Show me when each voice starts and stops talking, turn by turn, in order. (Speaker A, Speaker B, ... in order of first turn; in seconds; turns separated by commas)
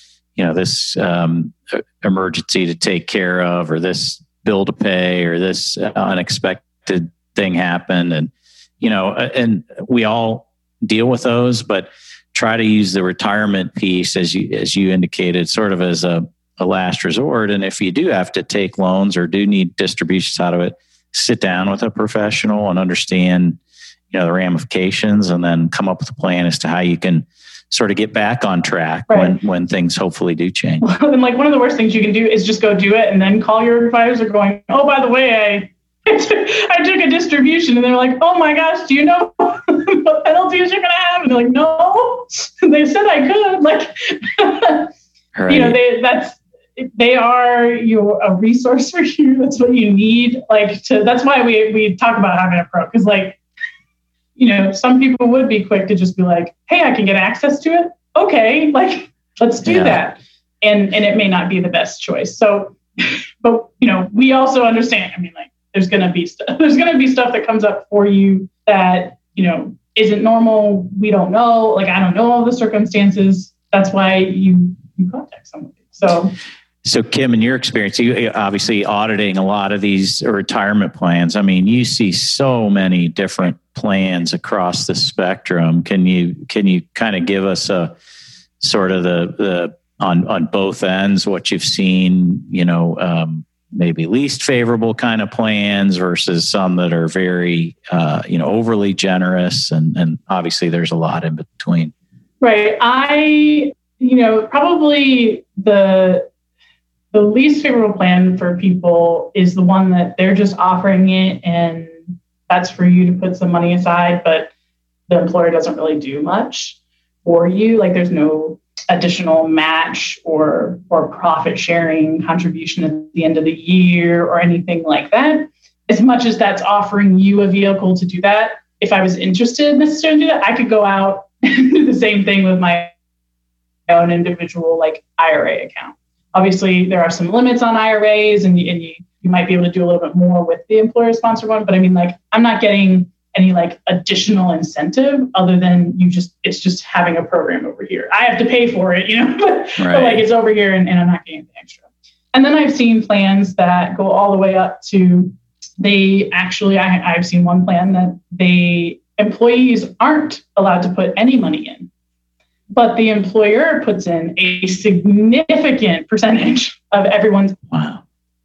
Speaker A: 0.4-8.3, Speaker A: 8.8-23.6, Speaker A: 24.1-30.9, Speaker B: 29.1-29.4, Speaker B: 30.8-44.9, Speaker A: 45.3-45.8, Speaker B: 45.5-53.4, Speaker B: 54.4-76.3, Speaker A: 59.6-60.0, Speaker A: 76.8-87.9, Speaker A: 88.6-101.9, Speaker B: 102.4-106.3, Speaker B: 107.1-114.5, Speaker B: 115.1-132.9, Speaker B: 133.9-161.9, Speaker A: 149.8-150.2, Speaker B: 162.7-167.6, Speaker A: 167.7-168.0